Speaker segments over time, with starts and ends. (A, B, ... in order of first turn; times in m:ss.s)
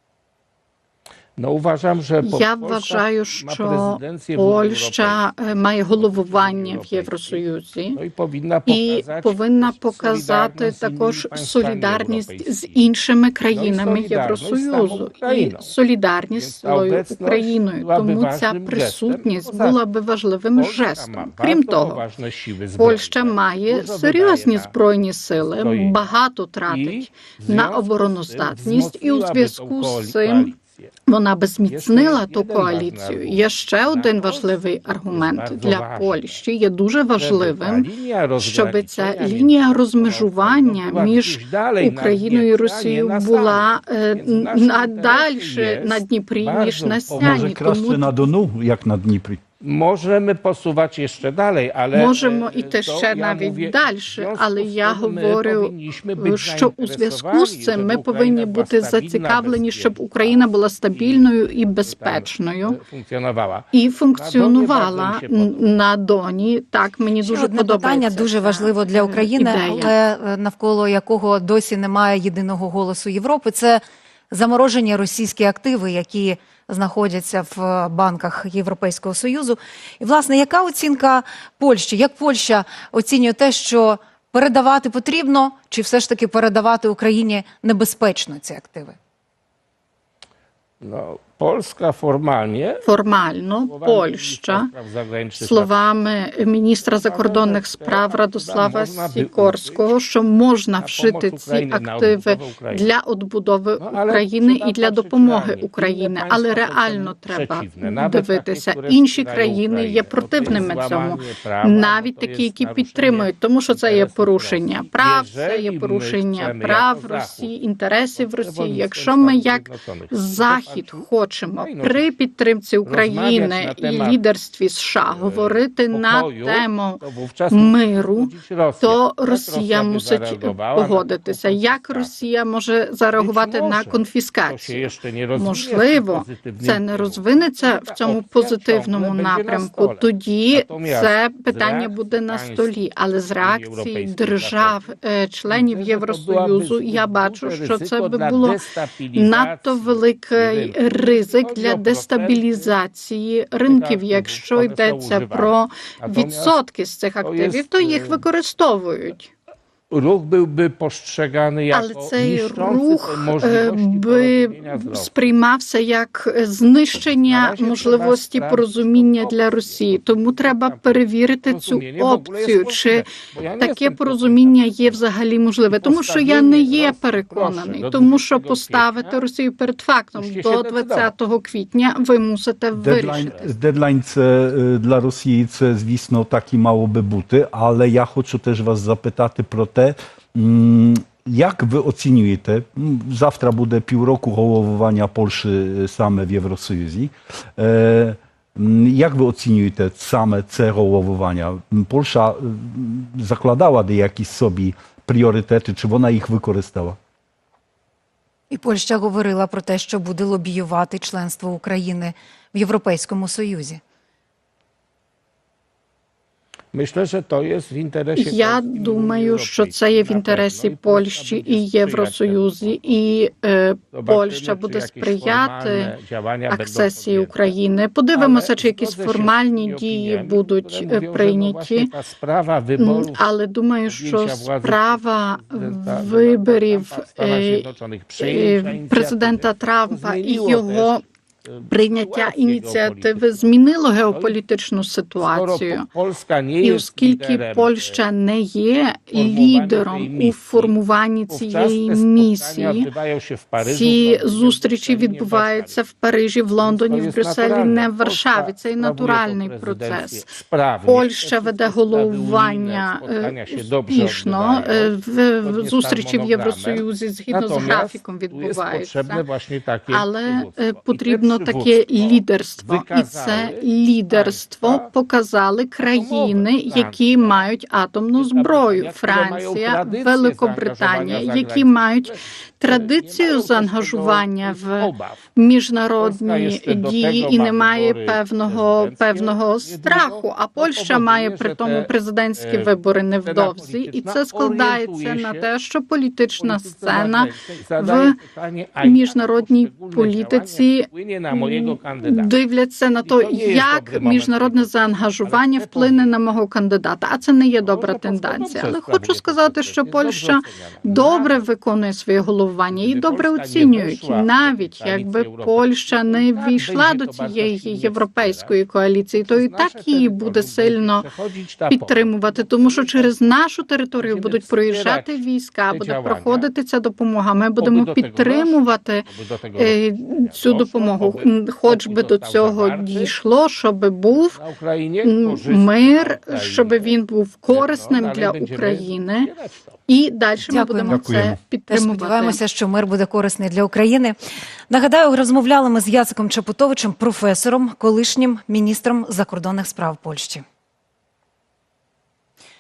0:01.4-0:05.3 A
0:02.2-0:08.0 B
0:06.0-0:07.4 A
0:08.0-0:12.9 A
0:08.7-0:22.0 B
0:13.5-0:15.7 A
0:16.4-0:19.8 A
0:20.6-0:24.7 A
0:22.8-0:30.5 B
0:25.6-0:26.1 A
0:26.7-0:30.9 A
0:31.1-0:37.9 B
0:31.7-0:36.4 A
0:37.2-0:47.7 A
0:38.4-0:48.3 B
0:47.1-0:49.4 C
0:49.6-1:05.8 A
0:51.9-1:02.8 B
1:03.7-1:09.9 B
1:07.2-1:29.0 D
1:30.8-1:32.9 A
1:32.8-1:34.7 B
1:33.7-1:35.7 A
1:35.4-2:08.3 B
1:36.9-1:39.9 A
1:40.8-1:42.9 A
1:43.8-1:57.5 A
1:58.2-2:01.1 A
2:01.6-2:02.1 A
2:02.8-2:04.2 A
2:05.0-2:12.1 A
2:08.8-2:28.6 B
2:13.2-2:22.7 A
2:23.4-2:24.8 A
2:25.5-2:32.7 A
2:29.2-2:39.3 B
2:33.7-2:36.6 A
2:37.2-2:38.2 A
2:39.9-2:45.2 A
2:41.7-2:53.0 B
2:47.3-2:55.0 A
2:53.6-3:03.4 B
2:55.7-2:59.2 A
3:00.2-3:01.1 A
3:02.7-3:27.0 C
3:02.8-3:03.5 A
3:28.5-3:33.8 D
3:36.7-3:42.8 A
3:38.2-3:45.9 B
3:43.9-3:47.6 A
3:46.5-3:51.9 B
3:48.1-3:53.2 A
3:52.8-3:57.6 B
3:53.9-4:03.5 A
3:58.2-4:01.0 B
4:01.7-4:05.9 B
4:04.1-4:04.4 A
4:05.2-4:08.0 A
4:06.6-4:12.9 B
4:09.1-4:10.8 A
4:11.3-4:15.8 A
4:13.6-4:20.3 B
4:16.6-4:34.9 A
4:20.9-4:29.2 B
4:29.9-4:58.2 B
4:35.9-4:37.5 A
4:38.2-4:45.3 A
4:46.0-4:52.7 A
4:53.2-4:55.5 A
4:56.4-5:02.3 A
4:58.8-5:21.0 B
5:03.0-5:06.1 A
5:07.6-5:11.4 A
5:12.7-5:18.6 A
5:19.3-5:23.3 A
5:21.7-5:34.4 B
5:24.0-5:25.2 A
5:25.7-5:26.5 A
5:27.6-5:33.1 A
5:34.1-5:37.0 A
5:35.0-5:39.3 B
5:37.5-5:39.8 A
5:39.9-5:42.4 B
5:40.4-5:44.2 D
5:40.9-5:41.4 C
5:44.7-5:50.4 D